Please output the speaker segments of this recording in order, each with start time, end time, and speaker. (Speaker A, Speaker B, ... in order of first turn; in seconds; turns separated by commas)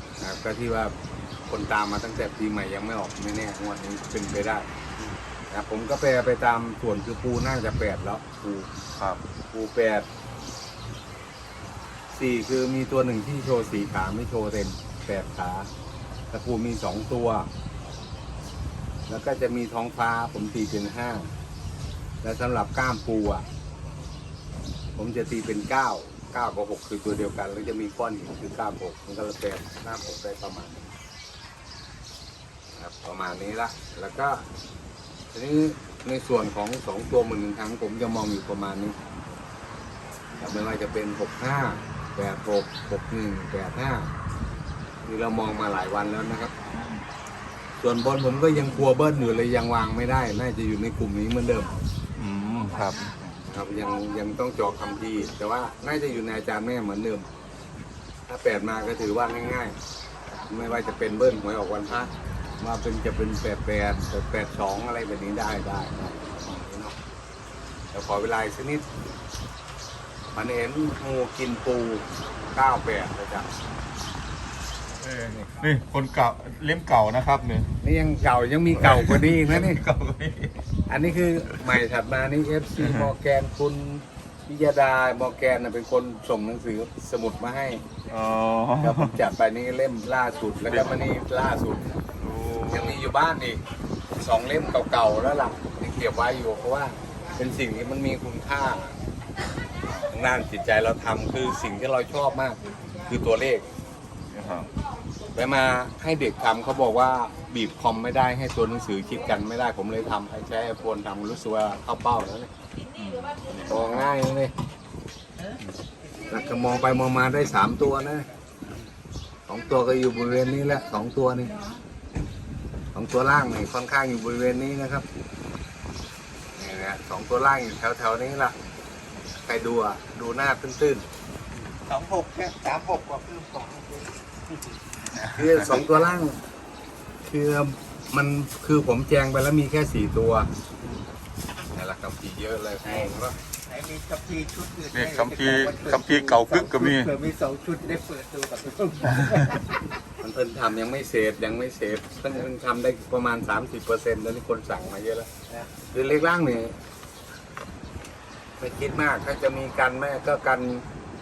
Speaker A: 0.2-0.9, Speaker A: 1.5-4.7, Speaker A: 5.5-8.7, Speaker B: 9.0-9.2, Speaker A: 9.5-10.1, Speaker A: 12.1-15.7, Speaker A: 16.3-17.5, Speaker A: 19.1-21.3, Speaker A: 22.2-23.5, Speaker A: 25.0-30.9, Speaker A: 32.8-34.4, Speaker A: 35.3-39.0, Speaker A: 40.4-44.1, Speaker A: 45.1-46.5, Speaker A: 47.8-51.8, Speaker B: 52.2-53.4, Speaker A: 53.4-57.3, Speaker A: 58.3-59.8, Speaker A: 60.4-67.0, Speaker A: 67.9-68.8, Speaker A: 70.3-73.5, Speaker B: 75.0-77.7, Speaker A: 77.8-79.8, Speaker B: 78.8-80.6, Speaker A: 80.9-87.8, Speaker B: 88.1-89.2, Speaker A: 88.8-92.0, Speaker B: 90.7-91.0, Speaker B: 92.2-93.0, Speaker A: 92.7-93.6, Speaker A: 94.2-99.0, Speaker A: 100.1-103.7, Speaker B: 104.3-104.7, Speaker A: 105.3-112.5, Speaker B: 113.0-113.8, Speaker A: 113.7-114.5, Speaker A: 116.3-118.3, Speaker A: 119.5-121.5, Speaker A: 122.9-125.1, Speaker A: 126.6-128.6, Speaker A: 129.4-131.1, Speaker C: 131.7-134.8, Speaker A: 135.3-136.4, Speaker A: 137.2-140.5, Speaker A: 141.7-143.4, Speaker C: 142.8-143.1, Speaker C: 143.6-149.8, Speaker B: 144.9-147.1, Speaker A: 150.2-155.3, Speaker A: 155.9-156.8, Speaker A: 158.6-160.8